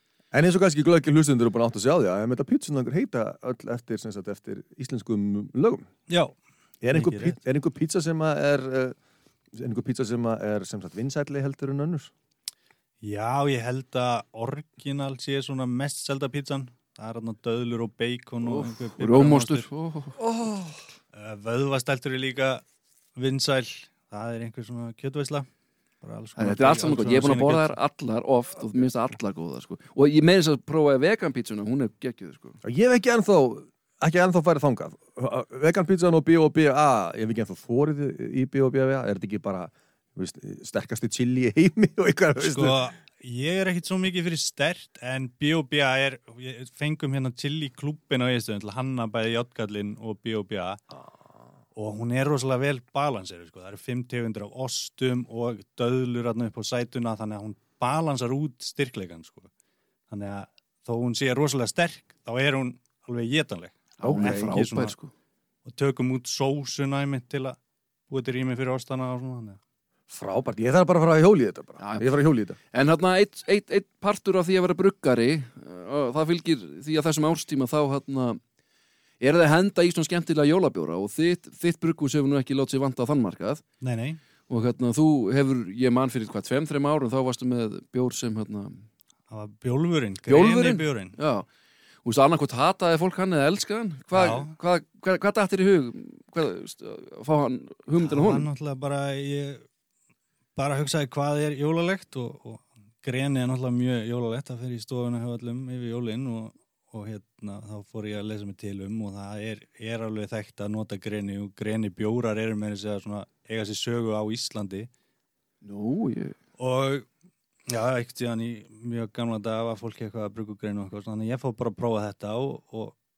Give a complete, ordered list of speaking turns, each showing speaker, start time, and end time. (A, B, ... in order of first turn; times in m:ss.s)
0:00.3-0:05.8 A
0:06.1-0:06.4 B
0:06.8-0:09.0 A
0:06.9-0:07.4 B
0:09.5-0:12.1 A
0:13.0-0:19.7 B
0:18.4-0:20.2 C
0:20.2-0:20.8 A
0:21.1-0:22.6 B
0:23.2-0:25.5 B
0:26.0-0:27.8 B
0:26.4-0:32.6 C
0:32.6-0:42.8 A
0:42.4-0:50.8 B
0:51.8-0:59.5 B
1:00.1-1:04.9 B
1:04.0-1:05.1 C
1:05.6-1:07.6 B
1:08.1-1:09.6 B
1:10.1-1:12.6 A
1:11.8-1:12.2 C
1:12.7-1:18.4 C
1:19.2-1:23.6 C
1:23.8-1:24.2 B
1:24.5-1:28.8 C
1:29.3-1:31.2 B
1:30.2-1:31.5 C
1:32.0-1:38.5 C
1:34.1-1:34.5 B
1:38.0-1:39.7 B
1:40.6-1:54.9 B
1:55.6-1:56.4 C
1:56.6-1:57.1 B
1:57.7-2:03.0 B